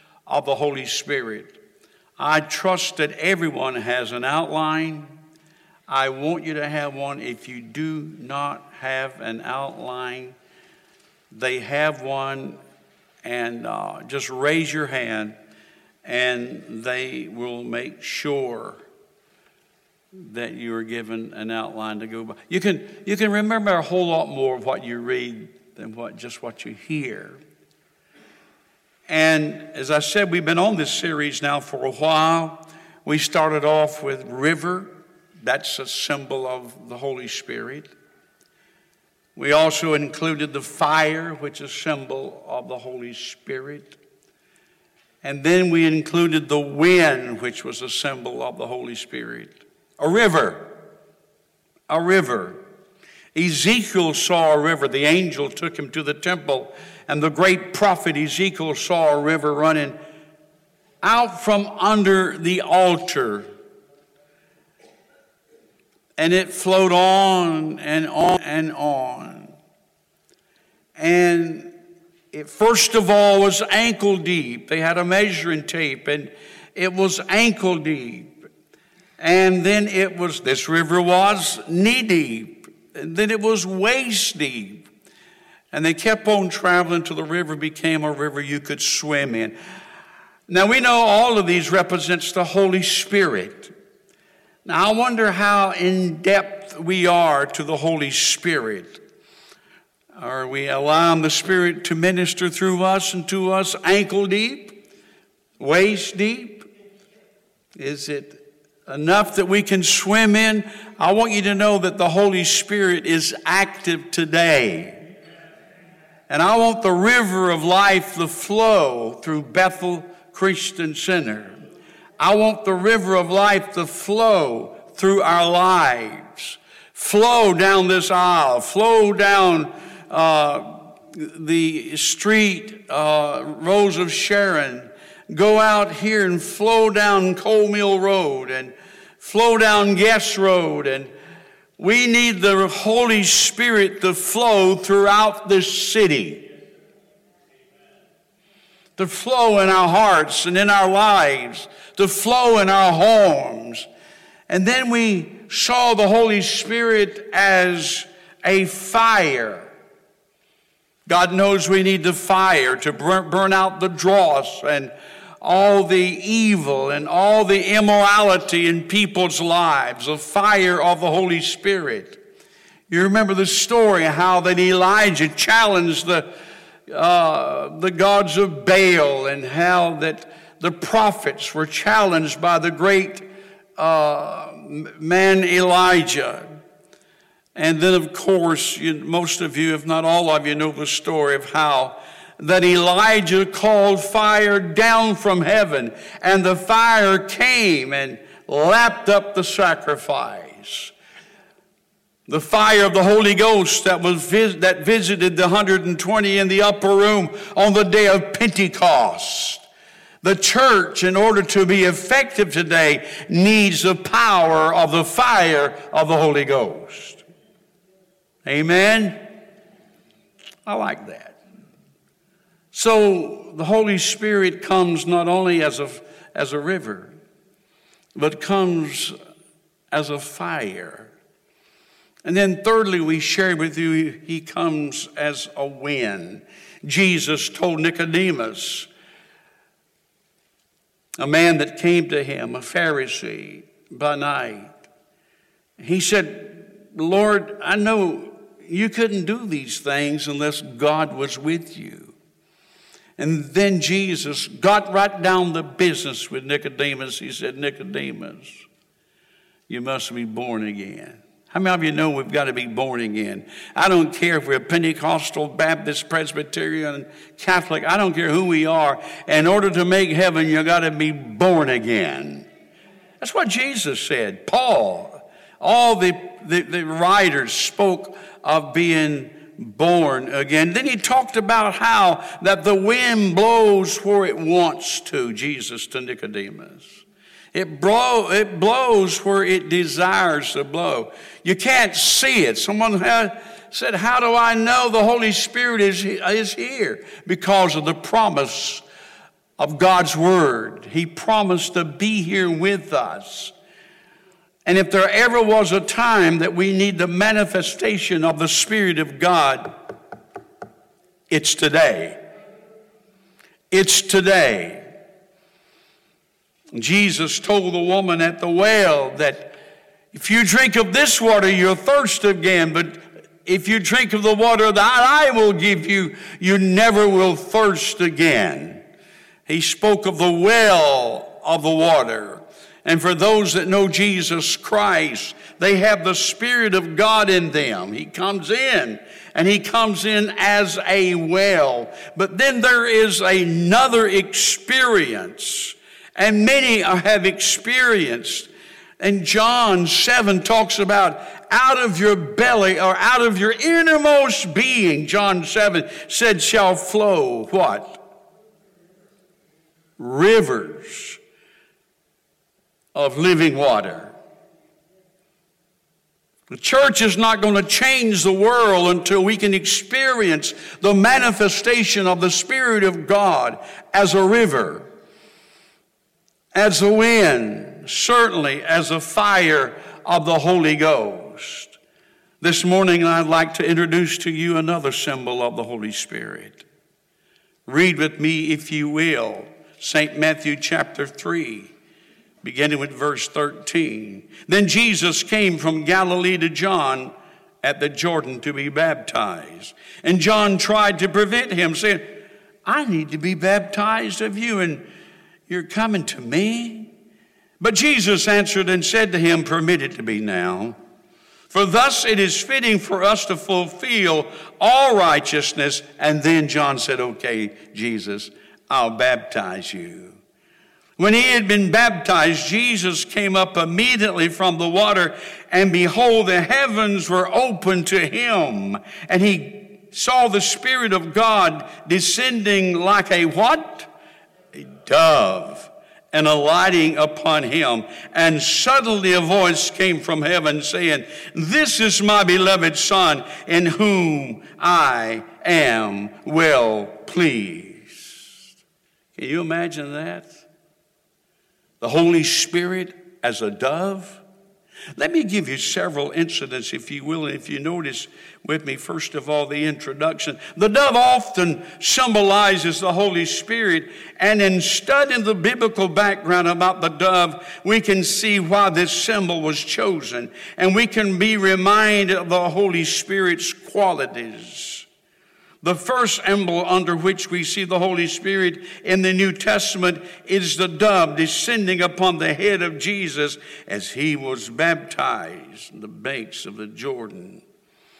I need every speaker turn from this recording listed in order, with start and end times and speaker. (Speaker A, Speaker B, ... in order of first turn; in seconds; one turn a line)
Speaker A: 0.3-1.6
Speaker A: 2.2-5.2
Speaker A: 5.9-10.3
Speaker A: 11.3-12.6
Speaker A: 13.2-15.3
Speaker A: 16.0-18.8
Speaker A: 20.1-27.4
Speaker A: 29.1-37.9
Speaker A: 39.4-44.0
Speaker A: 45.2-50.7
Speaker A: 51.9-52.6
Speaker A: 53.3-60.0
Speaker A: 61.0-63.5
Speaker A: 66.2-69.5
Speaker A: 71.0-71.7
Speaker A: 72.3-78.3
Speaker A: 79.2-84.9
Speaker A: 85.7-89.5
Speaker A: 90.5-93.7
Speaker A: 94.6-99.0
Speaker A: 100.2-104.8
Speaker A: 105.6-106.7
Speaker A: 107.8-115.0
Speaker A: 116.3-121.6
Speaker A: 122.2-141.1
Speaker A: 141.8-146.4
Speaker A: 149.0-153.9
Speaker A: 154.5-159.7
Speaker A: 161.1-172.2
Speaker A: 172.9-176.3
Speaker A: 176.9-183.2
Speaker A: 183.8-186.4
Speaker A: 187.5-200.9
Speaker A: 202.3-209.6
Speaker A: 210.2-217.2
Speaker A: 218.4-219.2
Speaker A: 220.7-221.4
Speaker A: 222.7-227.2
Speaker A: 228.1-229.1
Speaker A: 229.9-231.1
Speaker A: 232.2-238.9
Speaker A: 241.2-244.8
Speaker A: 245.8-252.1
Speaker A: 253.2-258.6
Speaker A: 259.7-272.5
Speaker A: 273.2-298.8
Speaker A: 299.6-303.5
Speaker A: 304.6-309.8
Speaker A: 311.3-312.2
Speaker A: 313.7-314.9
Speaker A: 316.7-319.6
Speaker A: 320.1-328.8
Speaker A: 329.5-358.0
Speaker A: 360.0-361.2
Speaker A: 362.9-364.1
Speaker A: 366.5-374.9
Speaker A: 376.5-381.8
Speaker A: 382.4-386.6
Speaker A: 387.7-391.7
Speaker A: 392.4-404.9
Speaker A: 405.5-406.9
Speaker A: 407.6-410.8
Speaker A: 411.5-420.2
Speaker A: 421.0-433.9
Speaker A: 434.5-448.4
Speaker A: 449.1-450.4
Speaker A: 451.8-454.2
Speaker A: 454.9-474.9
Speaker A: 475.6-487.4